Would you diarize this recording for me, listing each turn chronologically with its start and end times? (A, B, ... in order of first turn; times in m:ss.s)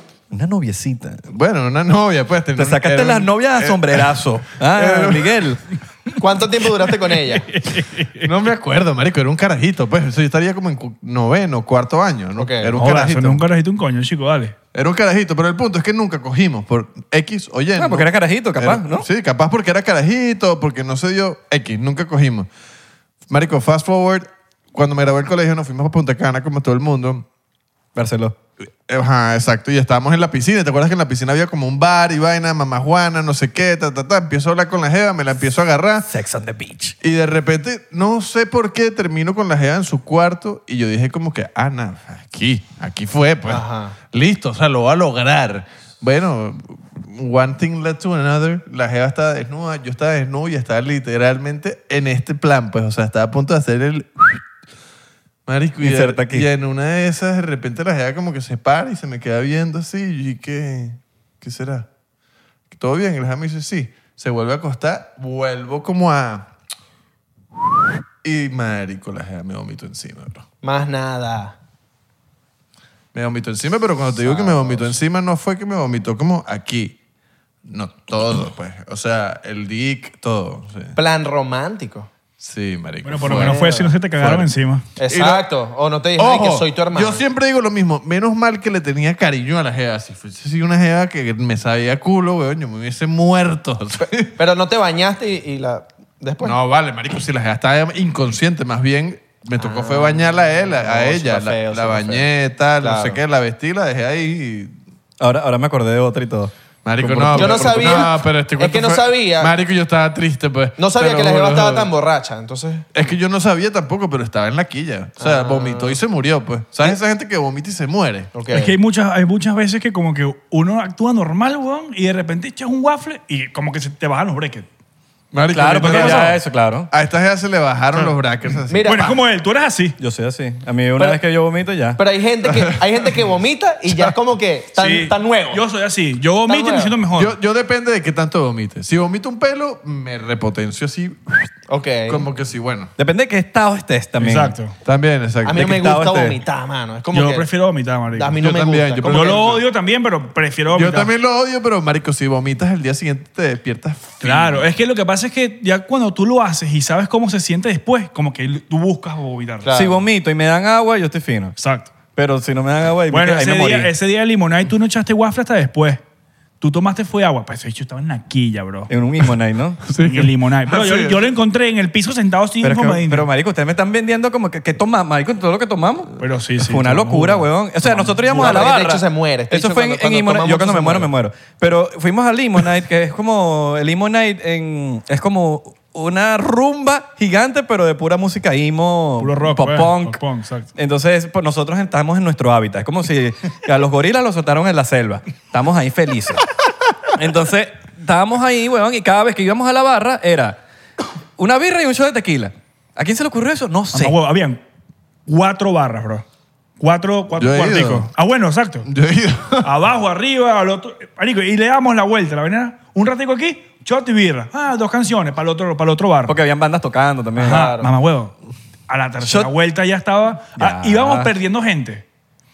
0:00.3-0:01.2 A
0:01.3-0:05.5 B
0:02.6-0:05.6 A
0:06.2-0:07.5 C
0:07.5-0:08.3 D
0:08.2-0:13.4 B
0:12.4-0:12.8 C
0:12.8-0:14.6 D
0:14.7-0:22.5 B
0:17.8-0:19.1 A
0:23.3-0:27.3 B
0:28.0-0:28.4 A
0:28.9-0:36.1 B
0:36.1-0:37.0 A
0:37.0-0:54.4 B
0:43.5-0:44.0 C
0:55.5-1:01.9 B
0:55.8-0:56.5 A
1:02.7-1:06.5 B
1:07.6-1:10.5 B
1:10.6-1:11.6 C
1:13.1-1:17.0 B
1:14.2-1:15.0 C
1:17.6-1:21.0 B
1:21.0-1:22.1 C
1:22.4-1:24.5 B
1:23.0-1:24.8 D
1:23.2-1:23.9 C
1:25.0-1:27.2 C
1:25.1-1:25.5 B
1:26.2-1:34.4 B
1:34.4-1:36.6 C
1:36.4-1:44.8 B
1:39.6-1:42.3 C
1:42.8-1:43.2 C
1:45.2-1:48.1 A
1:46.8-1:51.9 B
1:47.3-1:49.5 C
1:50.8-1:52.9 C
1:52.9-1:58.3 B
1:55.2-1:56.0 C
1:58.3-1:58.7 C
1:58.5-2:04.7 D
2:05.3-2:06.4 B
2:05.5-2:06.9 A
2:05.7-2:06.4 D
2:06.9-2:09.2 B
2:08.7-2:09.2 C
2:08.8-2:10.0 D
2:10.0-2:12.0 A
2:12.0-2:15.6 C
2:12.4-2:12.8 B
2:14.8-2:17.4 D
2:16.5-2:17.0 C
2:17.2-2:21.5 B
2:21.7-2:22.2 C
2:22.1-2:22.9 B
2:23.0-2:24.6 A
2:24.2-2:24.8 D
2:24.8-2:25.8 B
2:25.4-2:27.5 C
2:25.5-2:26.4 A
2:27.1-2:28.4 D
2:28.1-2:29.6 C
2:28.4-2:29.6 B
2:29.0-2:31.1 D
2:30.7-2:34.7 B
2:34.2-2:39.7 D
2:39.6-2:40.0 C
2:39.7-2:41.6 A
2:41.6-2:41.9 D
2:42.2-2:43.9 A
2:43.1-2:46.0 D
2:46.6-2:48.9 D
2:48.9-2:49.8 A
2:49.8-2:51.3 B
2:50.0-2:53.3 D
2:52.6-3:10.2 A
2:56.2-2:58.7 D
2:58.3-3:01.1 C
3:09.2-3:10.7 D
3:10.8-3:16.4 A
3:17.1-3:20.6 A
3:21.4-3:24.2 A
3:23.9-3:24.6 D
3:25.3-3:26.2 D
3:26.8-3:28.9 D
3:27.4-3:28.1 B
3:28.8-3:29.7 B
3:29.6-3:36.4 D
3:36.3-3:37.7 A
3:37.4-3:38.4 D
3:37.4-3:37.9 C
3:38.9-3:42.0 D
3:39.2-3:39.5 A
3:40.6-3:41.3 A